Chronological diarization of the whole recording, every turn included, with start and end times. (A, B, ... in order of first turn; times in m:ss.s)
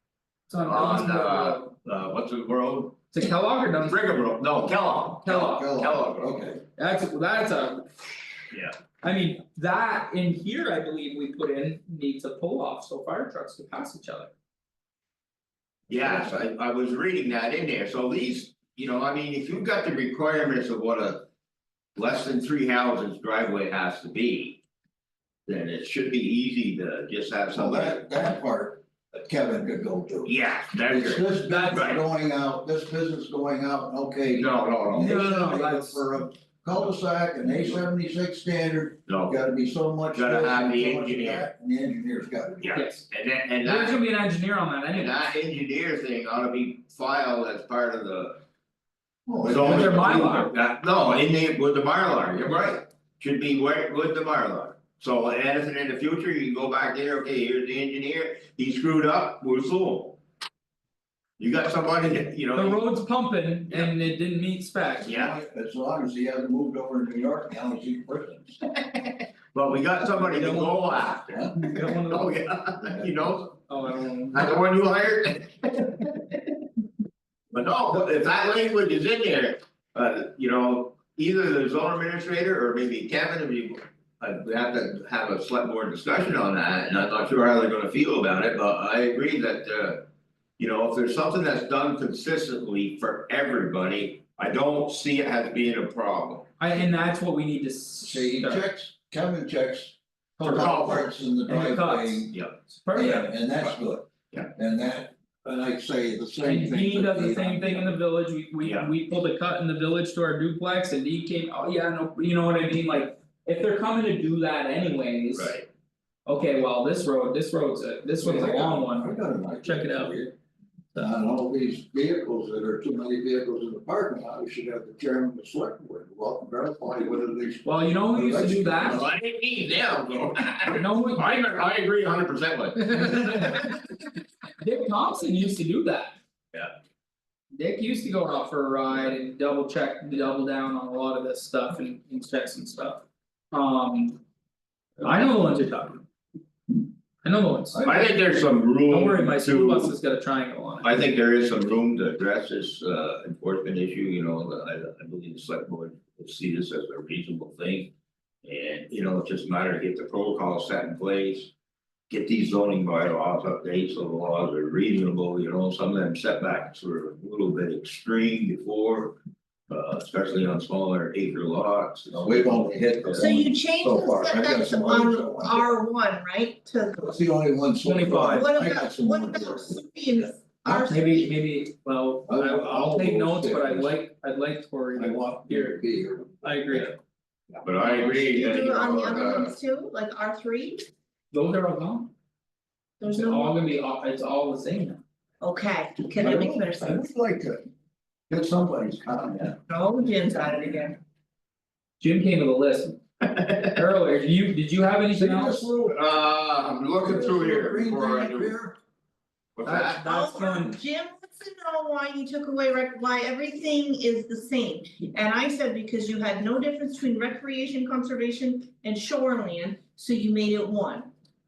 0:00.5-0:01.7 A
0:00.6-0:03.0 B
0:03.1-0:04.0 A
0:03.8-0:06.5 B
0:05.2-0:05.7 A
0:05.3-0:06.6 C
0:06.8-0:08.3 A
0:09.0-0:14.3 A
0:15.9-0:21.2 B
0:16.0-0:16.3 C
0:22.0-0:24.6 B
0:25.5-0:28.0 B
0:27.5-0:30.3 C
0:30.2-0:32.0 B
0:30.8-0:42.7 C
0:31.5-0:32.0 A
0:34.3-0:35.2 B
0:35.0-0:36.1 A
0:37.5-0:37.8 B
0:39.1-0:39.4 B
0:40.1-0:41.5 B
0:42.6-0:44.0 B
0:42.7-0:43.1 A
0:43.6-0:45.3 A
0:44.9-0:48.4 B
0:49.2-0:50.5 C
0:49.4-1:00.2 B
0:49.6-0:50.5 A
1:01.4-1:02.8 B
1:02.5-1:05.1 A
1:05.0-1:08.6 C
1:05.0-1:05.3 B
1:09.0-1:13.6 B
1:10.2-1:10.8 C
1:11.3-1:11.7 C
1:11.6-1:12.4 A
1:13.0-1:13.4 C
1:13.7-1:14.4 A
1:14.3-1:16.4 B
1:17.5-1:30.0 B
1:30.6-1:36.5 B
1:36.6-1:38.7 A
1:38.0-1:42.3 C
1:40.4-1:42.3 A
1:40.4-1:41.1 B
1:42.8-1:43.3 A
1:42.9-1:48.0 C
1:46.4-1:55.6 A
1:48.6-1:48.9 B
1:55.3-1:55.6 B
1:56.2-2:00.2 A
1:58.2-2:00.3 C
2:00.9-2:09.0 C
2:07.6-2:09.0 A
2:08.8-2:13.6 B
2:10.7-2:11.3 A
2:12.9-2:13.6 A
2:14.6-2:16.2 A
2:17.5-2:24.2 A
2:25.0-2:26.0 A
2:27.2-2:28.0 A
2:27.8-2:29.9 B
2:28.9-2:30.9 A
2:30.8-2:37.9 B
2:38.4-2:41.5 B
2:42.1-2:49.1 B
2:49.7-2:53.3 B
2:52.1-2:55.7 C
2:53.2-2:57.2 D
2:57.0-2:59.8 C
2:57.8-2:58.5 A
2:58.1-3:01.3 D
3:00.6-3:05.8 A
3:02.3-3:04.0 C
3:04.9-3:06.4 C
3:06.4-3:06.9 A
3:07.6-3:09.5 B
3:08.0-3:10.8 D
3:11.3-3:12.1 A
3:13.0-3:13.5 D
3:13.1-3:15.0 A
3:15.4-3:17.0 D
3:16.2-3:17.6 C
3:18.3-3:19.6 C
3:19.7-3:21.0 D
3:22.0-3:23.0 A
3:23.2-3:23.8 B
3:23.7-3:25.7 A
3:25.1-3:26.0 C
3:25.9-3:28.5 B
3:27.0-3:28.8 C
3:29.6-3:30.0 B
3:29.6-3:30.8 A
3:30.0-3:41.1 D